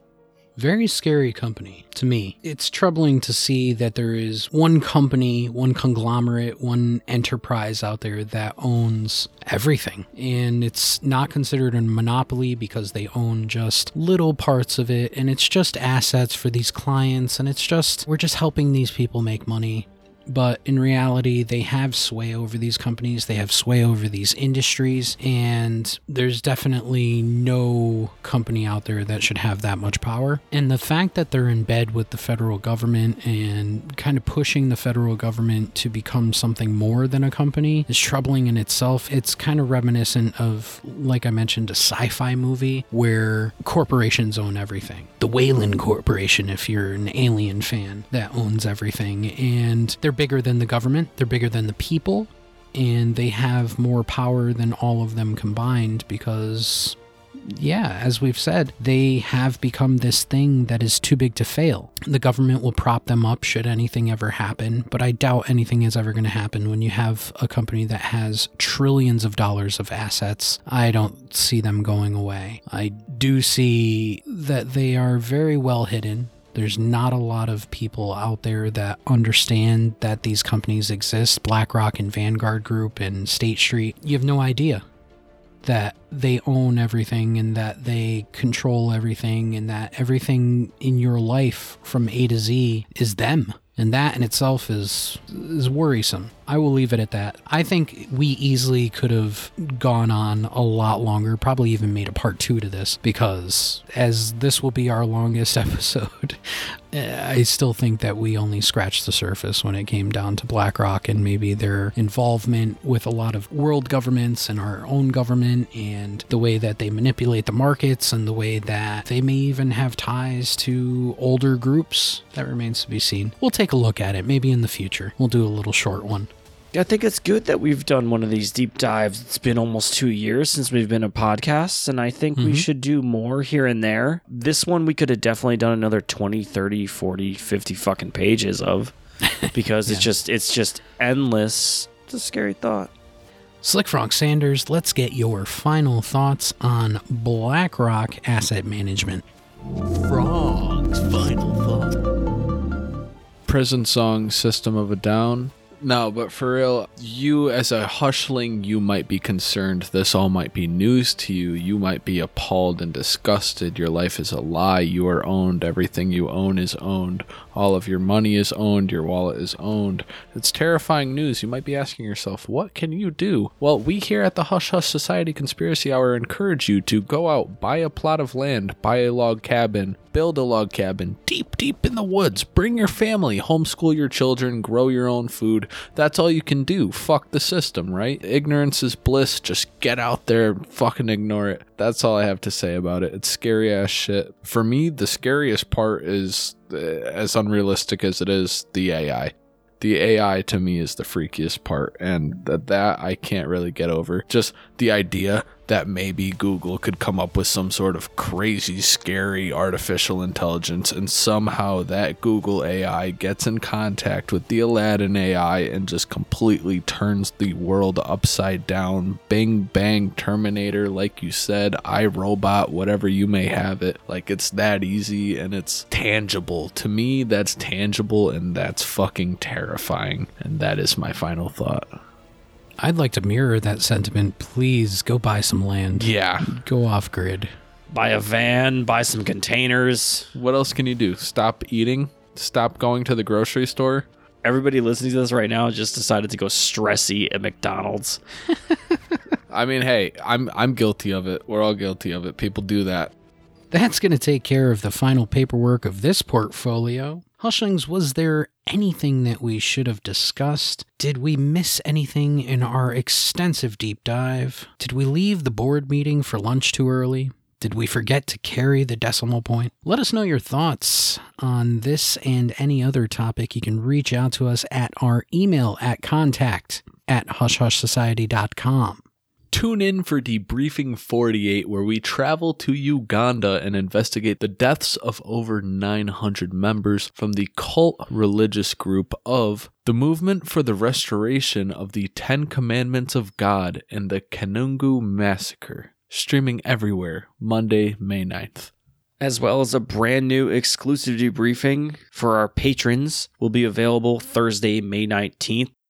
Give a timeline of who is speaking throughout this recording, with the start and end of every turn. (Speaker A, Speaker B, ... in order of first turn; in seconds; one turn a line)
Speaker A: 0.6-84.8
Speaker A: 85.6-126.3
Speaker B: 126.7-138.9
Speaker A: 132.4-132.7
Speaker A: 139.4-140.1
Speaker B: 139.5-142.9
Speaker A: 143.6-149.2
Speaker C: 150.0-152.0
Speaker C: 153.5-231.9
Speaker A: 232.8-237.5
Speaker C: 236.0-236.5
Speaker B: 237.9-240.3
Speaker C: 240.3-244.1
Speaker B: 244.4-248.2
Speaker C: 249.5-253.1
Speaker A: 253.7-279.0
Speaker C: 279.5-298.7
Speaker B: 299.2-305.7